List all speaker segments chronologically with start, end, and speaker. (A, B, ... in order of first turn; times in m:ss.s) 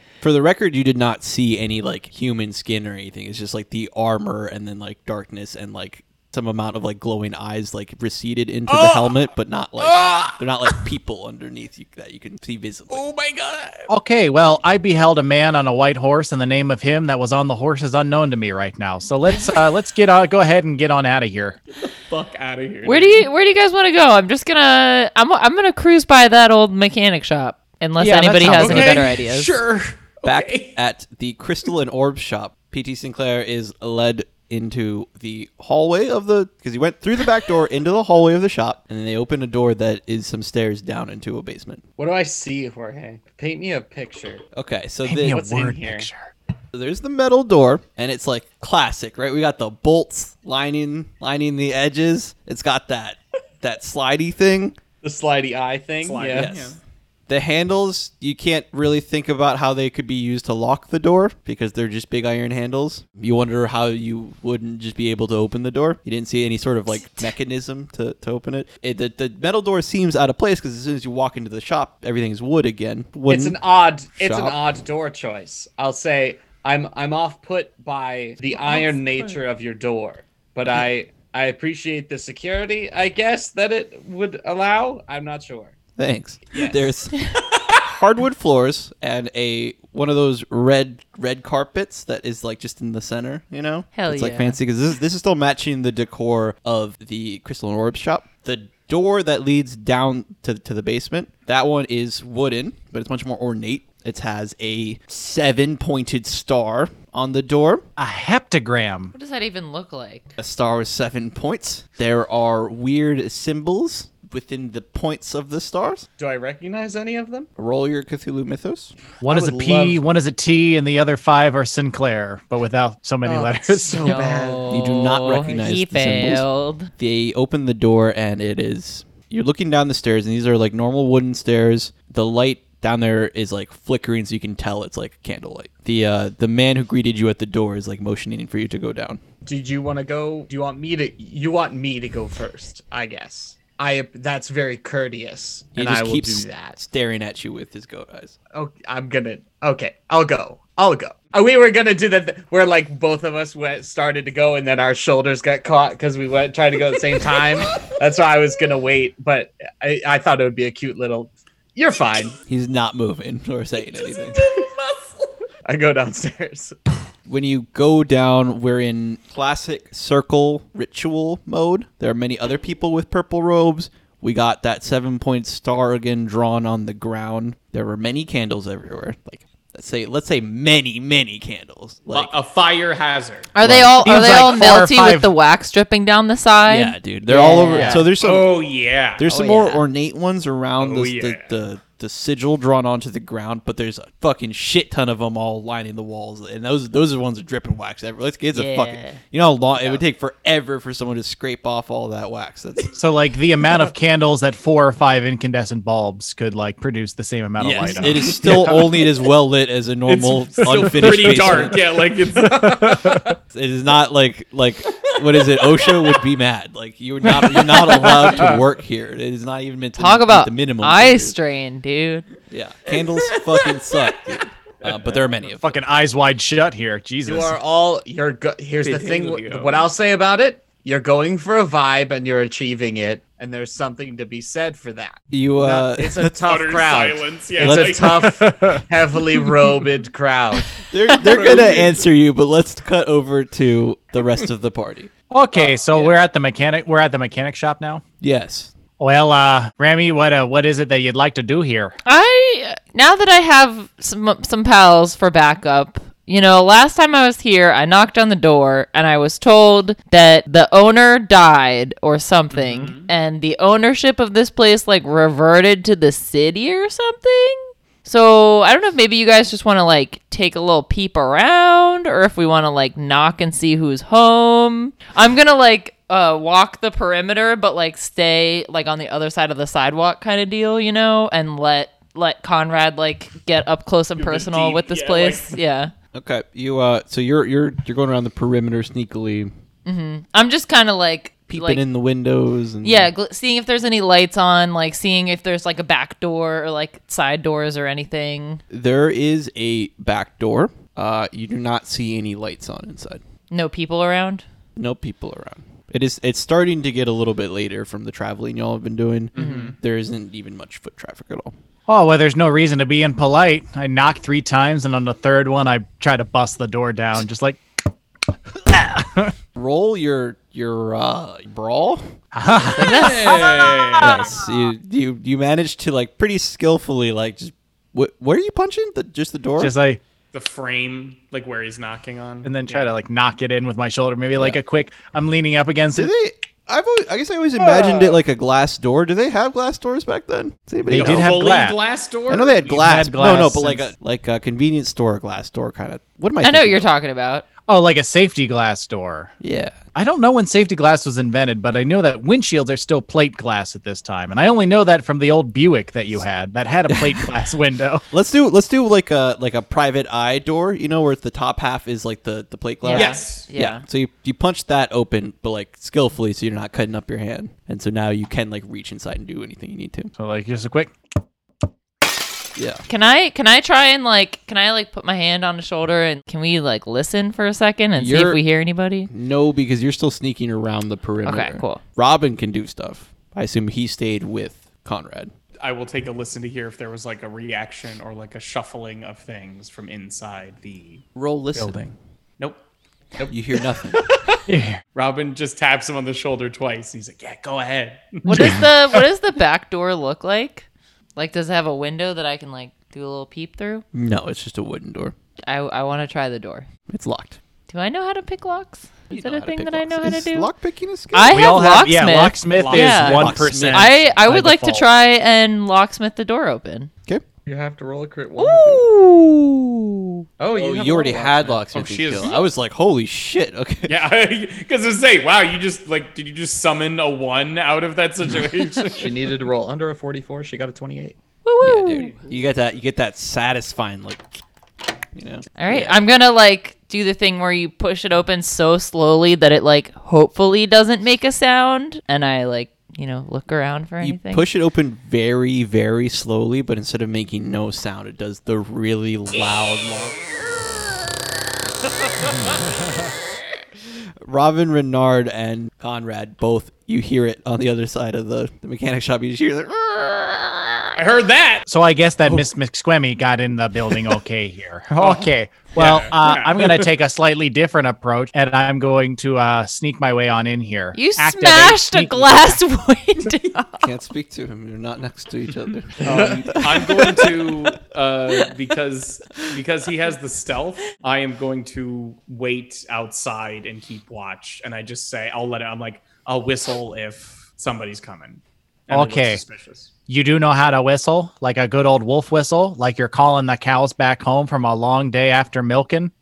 0:00.2-0:13.0 A
0:08.7-0:09.0 B
0:09.8-0:10.4 B
0:12.9-0:13.9 B
0:13.9-0:21.6 C
0:21.8-0:23.2 B
0:22.8-0:29.5 D
0:28.0-0:29.2 C
0:28.5-0:30.8 B
0:30.2-0:41.8 A
0:42.0-0:44.4 E
0:44.5-0:45.4 A
0:45.0-0:46.3 C
0:45.3-0:46.1 E
0:46.7-0:54.8 A
0:55.0-0:56.5 E
0:56.0-0:56.8 B
0:56.3-0:56.8 A
0:57.3-1:13.6 A
1:13.3-1:25.7 E
1:14.1-1:14.6 A
1:18.6-1:19.4 B
1:26.0-1:27.2 A
1:27.7-1:47.8 A
1:33.9-1:34.6 D
1:48.0-1:49.1 C
1:49.1-1:50.3 D
1:50.4-1:56.0 A
1:56.2-1:57.5 E
1:57.6-1:58.9 A
1:59.2-2:04.2 C
1:59.2-2:00.0 E
2:03.2-2:04.7 E
2:04.0-2:06.9 D
2:04.7-2:19.2 A
2:19.4-2:26.8 E
2:25.8-2:28.3 A
2:28.5-2:42.4 E
2:42.5-2:44.4 A
2:44.4-2:44.7 B
2:45.6-2:46.8 E
2:47.3-3:02.3 A
3:02.1-3:03.5 B
3:03.5-3:08.1 D
3:03.6-3:05.3 C
3:06.7-3:08.5 A
3:07.9-3:09.2 B
3:09.2-3:22.9 A
3:09.3-3:09.8 D
3:10.8-3:11.5 B
3:18.5-3:19.2 D
3:23.0-3:28.7 C
3:27.6-3:31.8 A
3:27.8-3:28.9 B
3:30.1-3:33.3 B
3:32.5-3:33.2 C
3:33.5-3:41.4 A
3:38.2-3:38.5 C
3:40.0-3:42.3 D
3:42.5-3:45.7 A
3:44.8-3:45.3 B
3:45.5-3:47.5 C
3:47.2-4:00.7 E
3:48.8-3:49.8 B
3:55.3-3:56.4 A
3:56.3-3:58.3 B
3:57.6-3:58.1 A
3:58.2-3:58.8 C
4:00.9-4:05.1 A
4:01.1-4:02.0 B
4:05.3-4:08.0 C
4:05.5-4:06.2 B
4:08.2-4:08.7 A
4:09.0-4:12.0 C
4:12.0-4:45.9 D
4:22.5-4:23.1 B
4:44.2-4:45.6 B
4:46.1-4:49.5 A
4:49.8-4:51.8 D
4:51.5-4:53.1 A
4:52.8-4:58.6 D
4:58.7-5:03.2 A
5:03.5-5:04.4 D
5:04.8-5:11.5 A
5:09.3-5:09.8 B
5:09.4-5:09.7 D
5:11.9-5:17.6 C
5:18.6-5:19.3 C
5:19.5-5:22.1 A
5:22.3-5:24.5 C
5:22.8-5:23.4 D
5:22.8-5:24.4 B
5:24.0-5:29.7 A
5:29.6-5:30.0 C
5:30.3-5:32.9 B
5:32.4-5:36.1 C
5:35.9-5:41.3 A
5:40.8-5:41.8 C
5:40.9-5:42.9 B
5:42.3-5:46.9 A
5:42.8-5:43.9 C
5:46.4-5:47.4 D
5:47.6-5:49.3 C
5:49.4-5:49.8 A
5:49.9-5:58.0 C
5:56.9-5:57.3 A
5:58.1-6:10.1 A
6:02.8-6:03.8 D
6:02.9-6:03.5 B
6:10.2-6:10.9 C
6:12.6-6:12.8 A
6:12.9-6:19.1 D
6:18.0-6:18.4 A
6:19.1-6:25.3 A
6:21.2-6:21.8 D
6:25.6-6:31.0 B
6:31.2-6:31.9 A
6:33.3-6:34.0 A
6:34.0-6:34.4 B
6:34.5-6:34.8 C
6:34.9-6:38.6 B
6:38.2-6:43.8 D
6:38.3-6:38.7 C
6:43.9-6:45.1 A
6:45.5-6:46.7 D
6:46.9-6:47.4 A
6:47.7-6:50.5 D
6:49.1-6:51.4 A
6:51.1-6:56.9 D
6:51.3-6:54.9 C
6:52.5-6:53.2 B
6:52.7-6:54.0 A
6:57.4-6:58.8 E
6:58.4-6:59.6 D
7:00.4-7:01.6 E
7:00.5-7:04.0 A
7:01.7-7:02.4 B
7:03.9-7:09.2 B
7:08.9-7:11.2 E
7:11.4-7:12.1 D
7:11.6-7:14.4 A
7:15.1-7:16.0 A
7:15.6-7:24.4 D
7:24.0-7:30.4 A
7:34.2-7:41.0 A
7:41.0-7:41.6 B
7:41.7-7:52.6 C
7:45.0-7:46.9 B
7:50.9-7:53.9 D
7:53.8-7:57.5 A
7:56.0-8:09.9 B
7:56.0-7:56.4 E
8:08.9-8:09.4 C
8:10.1-8:16.1 C